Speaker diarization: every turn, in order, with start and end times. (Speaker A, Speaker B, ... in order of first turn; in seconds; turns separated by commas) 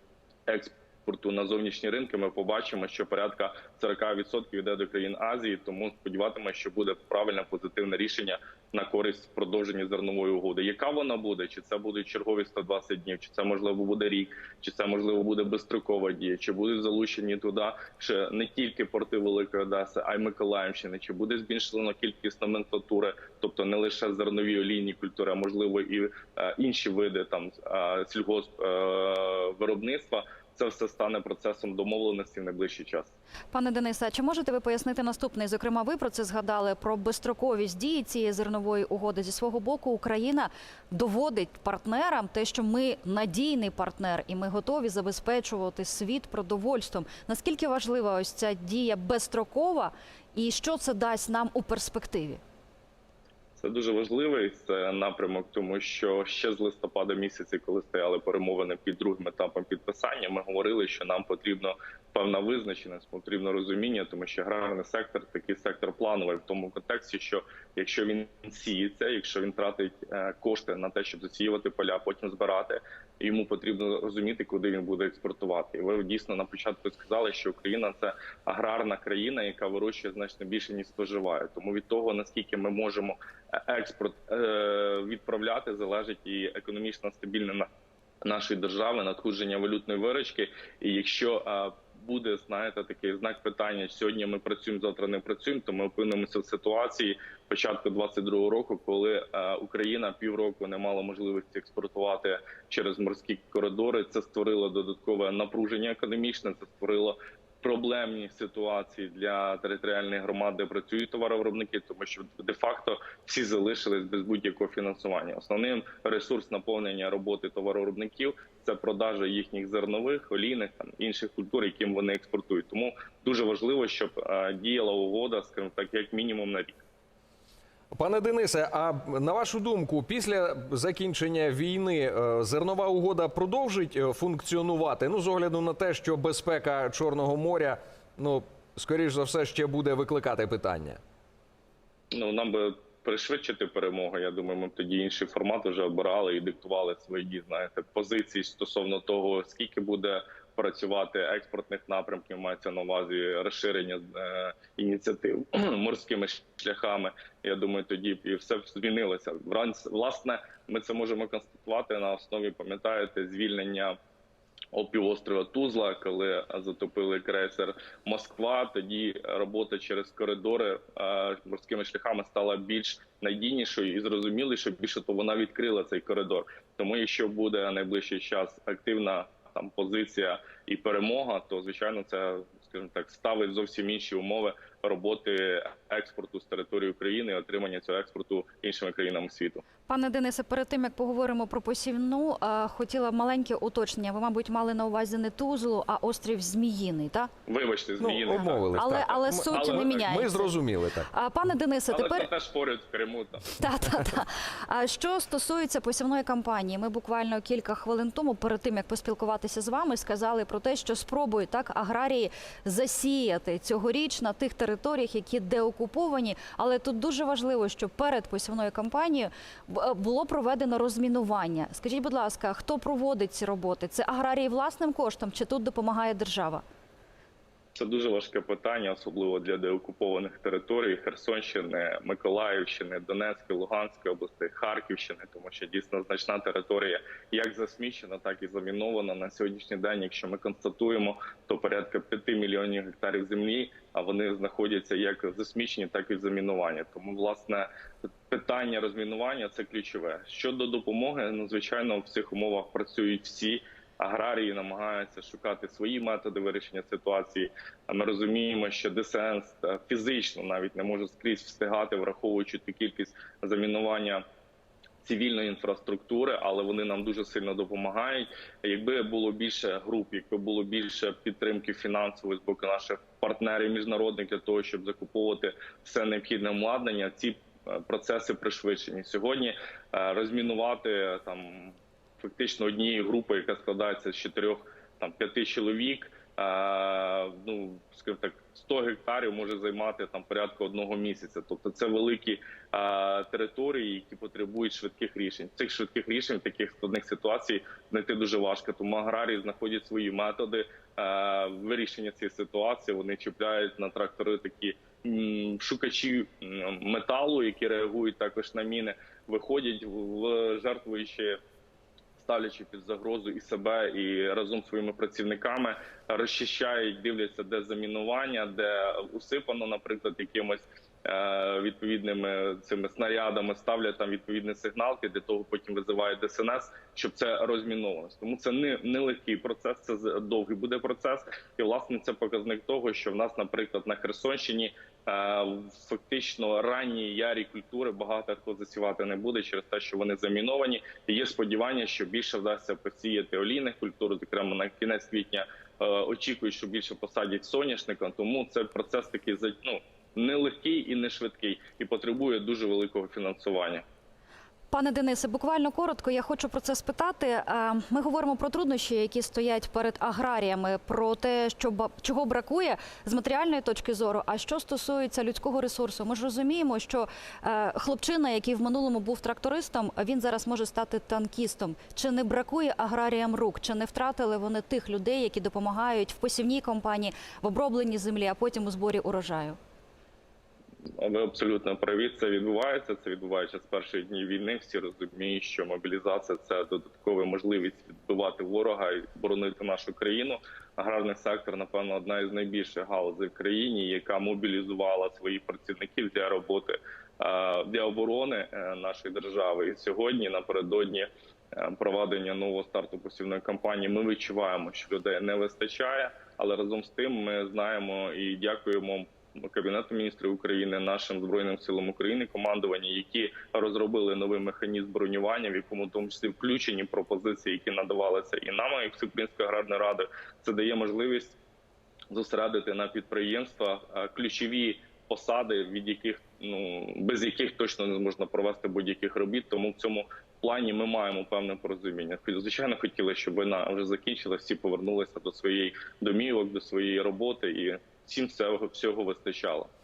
Speaker A: 0.5-33.1, Speaker B: 33.5-52.4, Speaker A: 53.6-87.7, Speaker A: 88.2-126.8, Speaker C: 127.9-141.0, Speaker A: 142.1-163.9, Speaker A: 164.7-189.6, Speaker B: 189.9-197.3, Speaker A: 197.5-198.7, Speaker C: 198.0-201.1, Speaker B: 198.7-200.5, Speaker A: 199.5-200.1, Speaker B: 201.1-202.3, Speaker A: 201.9-203.6, Speaker B: 203.6-226.6, Speaker A: 227.8-264.2, Speaker A: 265.0-311.4, Speaker A: 312.2-353.8, Speaker B: 354.7-379.6, Speaker A: 381.0-421.4, Speaker A: 422.1-439.7